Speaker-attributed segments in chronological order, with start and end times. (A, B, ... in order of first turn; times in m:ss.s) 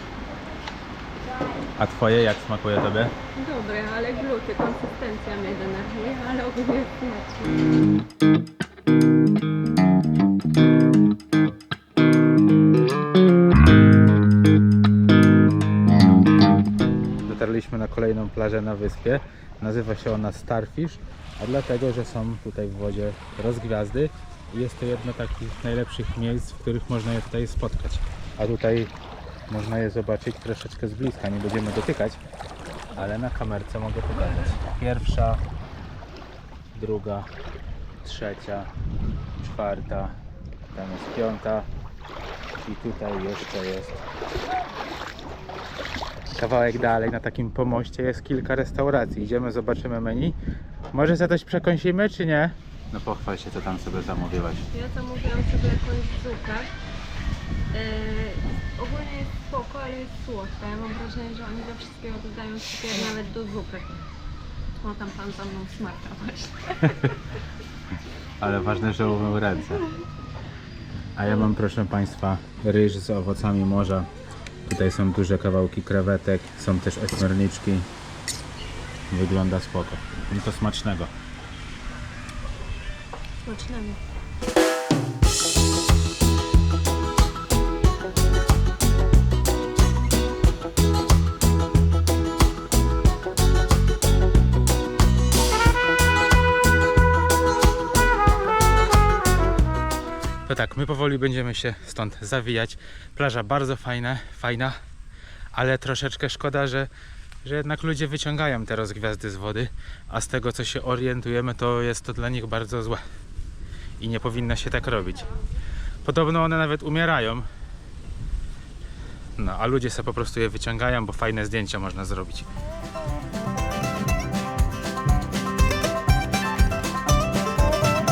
0:01.8-0:03.1 A
0:03.3-0:07.6 B
0:17.2-0:28.9 A
0:29.5-0:32.2 A
0:32.9-0:35.4 A
0:36.7-0:37.3 A
0:38.0-0:38.7 A
0:39.4-0:40.2 A
0:40.7-0:41.7 A
0:42.6-0:44.0 A
0:46.3-0:50.4 A
0:50.9-0:54.7 A
0:54.7-0:56.7 B
0:57.7-1:04.0 B
1:04.8-1:07.1 B
1:08.4-1:09.9 A
1:11.2-1:14.1 A
1:14.7-1:17.9 A
1:19.1-1:21.1 A
1:23.5-1:24.0 B
1:40.5-1:44.8 A
1:45.5-1:46.9 A
1:47.4-1:53.0 A
1:54.0-1:55.3 A
1:56.0-1:57.5 A
1:59.4-2:02.5 A